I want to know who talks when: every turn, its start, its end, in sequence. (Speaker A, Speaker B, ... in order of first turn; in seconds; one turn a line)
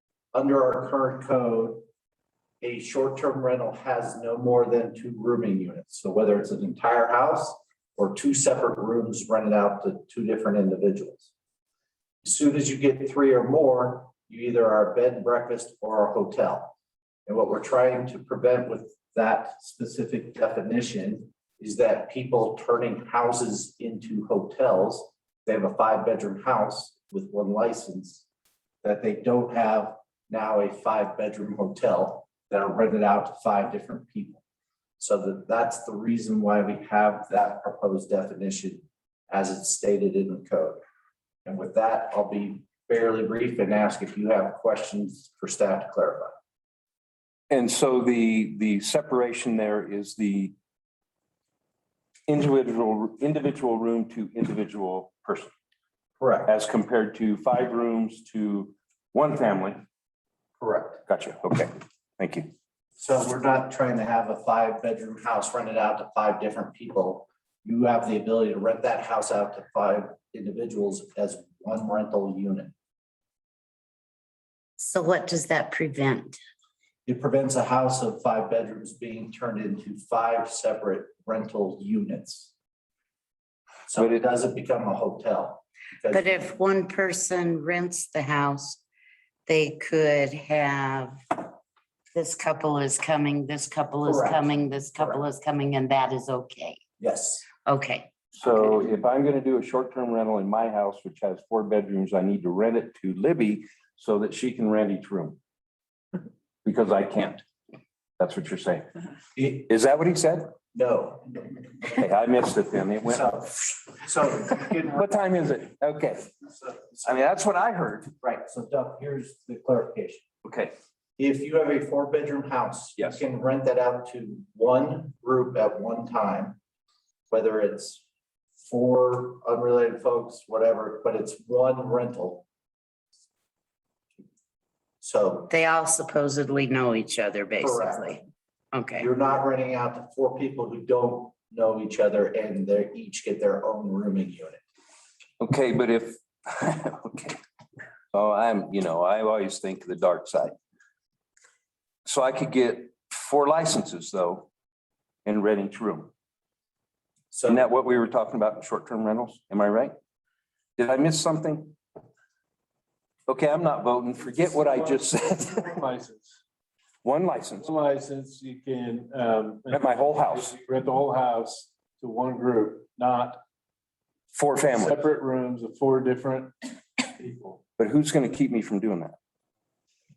Speaker A: 0.3-1.9
Speaker A: 2.6-11.3
Speaker A: 12.2-16.7
Speaker A: 17.3-28.2
Speaker A: 28.8-34.4
Speaker A: 35.0-40.8
Speaker A: 41.5-46.4
Speaker B: 47.5-50.5
Speaker B: 52.3-55.5
Speaker A: 56.2-56.5
Speaker B: 56.5-59.8
Speaker A: 60.6-61.0
Speaker B: 61.1-62.5
Speaker A: 63.0-72.7
Speaker C: 74.8-76.4
Speaker A: 77.1-82.5
Speaker A: 83.9-86.5
Speaker B: 84.0-84.2
Speaker C: 86.1-88.8
Speaker C: 89.5-91.4
Speaker C: 92.1-96.8
Speaker A: 94.0-95.2
Speaker A: 97.0-97.5
Speaker C: 97.7-98.1
Speaker B: 98.4-105.4
Speaker B: 106.7-107.5
Speaker B: 108.2-108.9
Speaker A: 109.4-109.7
Speaker B: 109.7-110.5
Speaker A: 110.7-111.4
Speaker B: 111.9-113.4
Speaker A: 113.1-115.1
Speaker B: 114.9-116.3
Speaker A: 116.6-117.3
Speaker B: 117.0-118.1
Speaker A: 118.2-120.2
Speaker B: 120.4-120.7
Speaker A: 121.2-126.6
Speaker A: 127.3-128.0
Speaker A: 128.6-132.5
Speaker A: 135.0-135.5
Speaker C: 135.5-138.2
Speaker A: 137.6-138.2
Speaker C: 138.7-139.1
Speaker A: 139.0-144.6
Speaker B: 145.4-147.4
Speaker B: 148.1-150.6
Speaker B: 152.1-154.5
Speaker B: 155.2-156.1
Speaker A: 157.3-157.7
Speaker B: 157.5-159.9
Speaker B: 160.8-161.8
Speaker B: 163.3-165.7
Speaker D: 164.3-166.4
Speaker B: 167.0-167.7
Speaker D: 167.6-173.4
Speaker B: 169.7-170.6
Speaker B: 174.3-175.0
Speaker D: 174.7-177.6
Speaker B: 177.8-179.2